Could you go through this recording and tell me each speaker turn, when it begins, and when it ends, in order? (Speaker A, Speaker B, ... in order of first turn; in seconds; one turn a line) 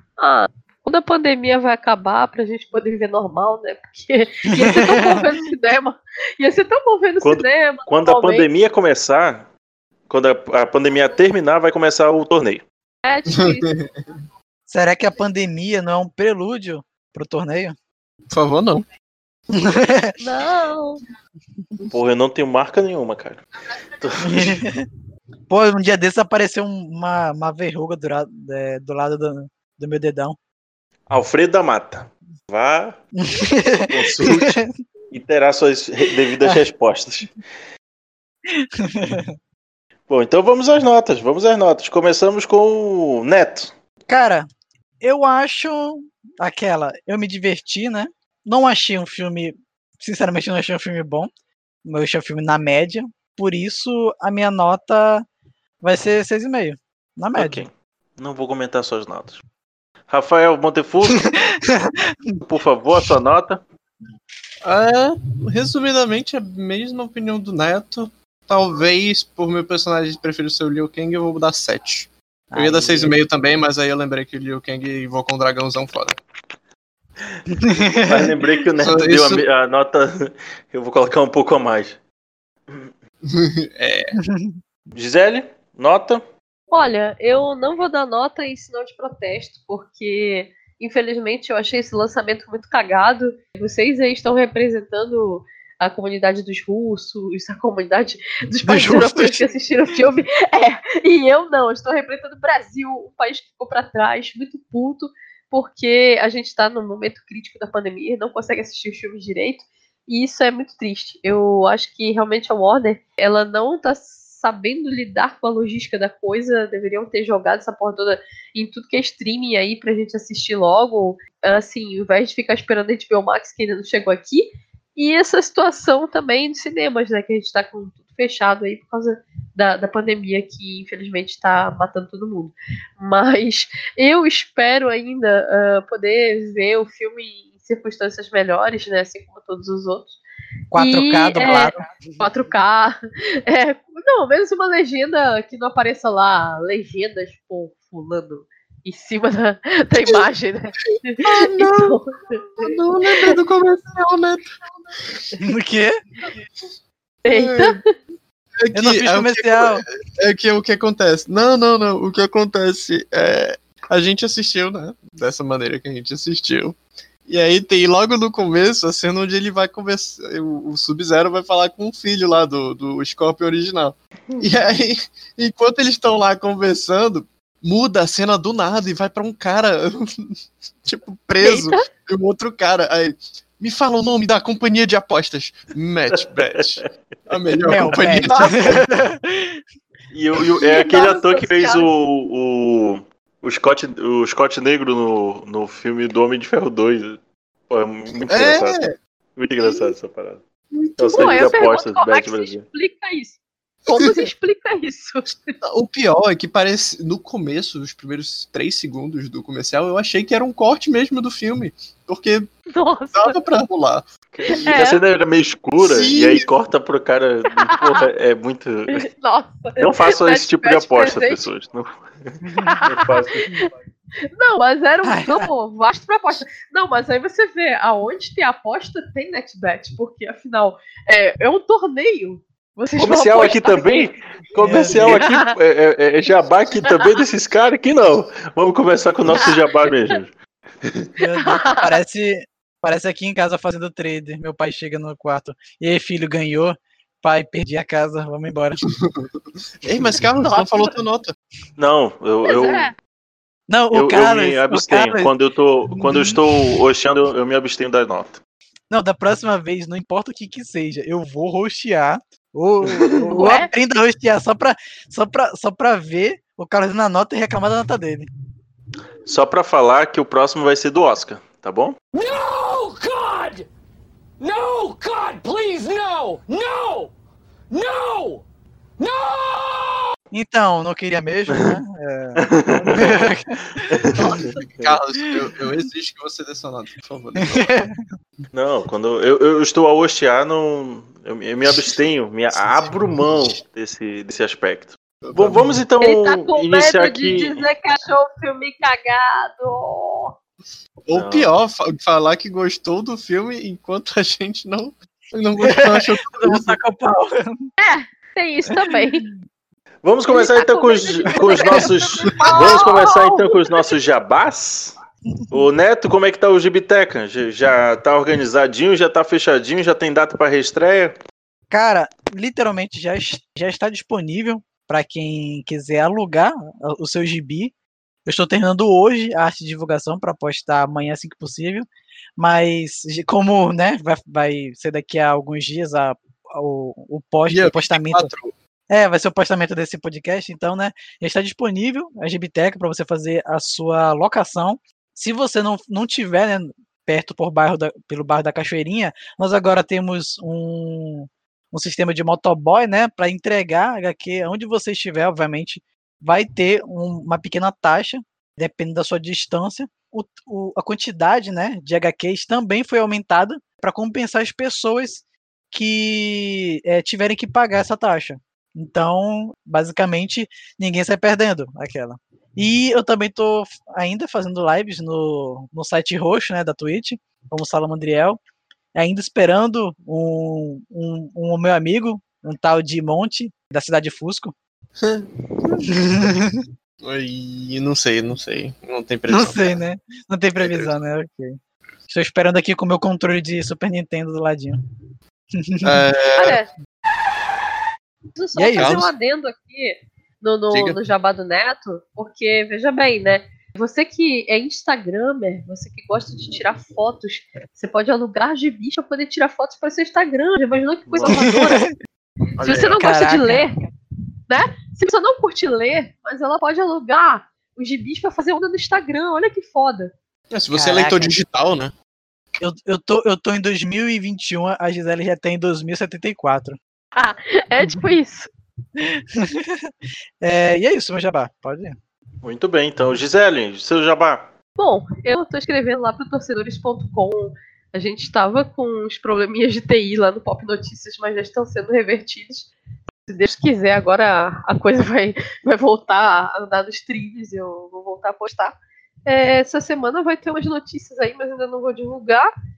Speaker A: 0.2-8.4
Speaker B: 4.5-5.2
Speaker C: 7.2-9.5
Speaker C: 10.1-12.6
Speaker A: 13.0-13.7
Speaker D: 13.3-14.2
Speaker B: 14.7-17.8
Speaker D: 18.3-18.9
Speaker B: 19.5-20.1
Speaker A: 20.2-21.0
Speaker C: 21.9-23.4
Speaker C: 24.0-24.6
Speaker B: 24.2-24.9
Speaker B: 25.5-30.4
Speaker C: 31.1-33.0
Speaker B: 33.2-34.7
Speaker C: 33.8-37.3
Speaker B: 38.5-39.3
Speaker C: 40.1-43.7
Speaker B: 44.1-44.5
Speaker B: 45.0-51.3
Speaker B: 51.8-55.2
Speaker B: 55.8-57.6
Speaker C: 57.4-59.4
Speaker C: 60.1-61.3
Speaker B: 61.3-62.4
Speaker C: 62.4-63.6
Speaker D: 64.6-76.2
Speaker B: 72.5-73.2
Speaker B: 77.5-78.3
Speaker C: 78.0-82.0
Speaker D: 78.8-79.4
Speaker D: 83.2-84.1
Speaker B: 84.2-84.6
Speaker C: 84.9-86.2
Speaker A: 86.7-140.2
Speaker B: 98.7-99.4
Speaker B: 140.7-142.3
Speaker A: 140.8-152.7
Speaker D: 151.2-152.0
Speaker D: 152.6-154.5
Speaker B: 155.4-156.0
Speaker D: 157.2-157.8
Speaker A: 157.3-157.7
Speaker D: 158.6-188.9
Speaker B: 158.7-159.8
Speaker A: 181.4-181.7
Speaker B: 187.6-189.6
Speaker C: 190.1-197.2
Speaker A: 190.6-191.9
Speaker C: 197.7-198.8
Speaker D: 198.3-198.9
Speaker C: 199.3-200.4
Speaker D: 200.8-201.2
Speaker C: 201.0-202.6
Speaker A: 201.1-205.5
Speaker D: 205.6-212.5
Speaker A: 212.7-213.4
Speaker D: 213.1-214.1
Speaker C: 214.3-219.1
Speaker A: 214.6-215.0
Speaker D: 215.8-216.5
Speaker A: 217.6-218.0
Speaker A: 218.9-221.4
Speaker C: 219.8-222.0
Speaker B: 222.4-222.7
Speaker A: 222.7-223.7
Speaker C: 222.8-223.6
Speaker A: 224.3-235.4
Speaker B: 225.1-225.4
Speaker C: 233.0-241.1
Speaker B: 234.6-235.2
Speaker A: 241.2-241.9
Speaker B: 241.2-248.8
Speaker D: 249.0-249.3
Speaker D: 249.8-251.3
Speaker A: 250.5-250.9
Speaker C: 251.8-252.9
Speaker A: 252.4-252.9
Speaker B: 253.7-255.3
Speaker C: 253.9-258.4
Speaker B: 258.9-268.3
Speaker A: 263.3-263.7
Speaker C: 269.3-271.9
Speaker E: 272.1-273.7
Speaker E: 274.4-277.1
Speaker E: 277.7-278.4
Speaker E: 279.0-280.0
Speaker B: 280.3-283.9
Speaker C: 281.5-281.8
Speaker C: 282.4-283.3
Speaker C: 283.9-285.0
Speaker D: 284.1-287.9
Speaker B: 287.4-287.9
Speaker C: 288.5-297.7
Speaker D: 292.5-293.6
Speaker D: 295.2-295.8
Speaker A: 296.0-300.4
Speaker D: 301.0-306.8
Speaker C: 301.1-301.5
Speaker B: 305.6-307.7
Speaker A: 307.8-309.3
Speaker B: 308.7-309.2
Speaker C: 310.0-314.9
Speaker A: 310.3-313.9
Speaker B: 311.4-311.6
Speaker D: 312.2-312.8
Speaker C: 315.5-321.1
Speaker B: 321.7-327.7
Speaker B: 328.2-338.3
Speaker D: 337.5-338.5
Speaker B: 338.9-378.4
Speaker B: 378.9-384.5
Speaker D: 385.0-386.0
Speaker B: 385.9-386.6
Speaker D: 387.0-389.8
Speaker B: 389.3-391.6
Speaker D: 390.6-390.9
Speaker B: 392.1-394.8
Speaker B: 395.6-396.0
Speaker D: 395.8-396.6
Speaker A: 396.4-396.7
Speaker A: 398.3-411.9
Speaker B: 398.5-399.0
Speaker D: 398.7-399.1
Speaker D: 400.7-401.0
Speaker C: 411.1-411.6
Speaker B: 411.2-411.9
Speaker A: 412.6-413.7
Speaker D: 412.6-412.9
Speaker B: 412.6-413.6
Speaker A: 414.5-420.1
Speaker D: 420.5-421.9
Speaker B: 420.7-421.4
Speaker B: 422.6-426.8
Speaker A: 427.1-428.5
Speaker B: 429.1-429.9
Speaker B: 430.4-432.0
Speaker C: 432.4-434.5
Speaker A: 434.8-442.7
Speaker A: 443.3-452.5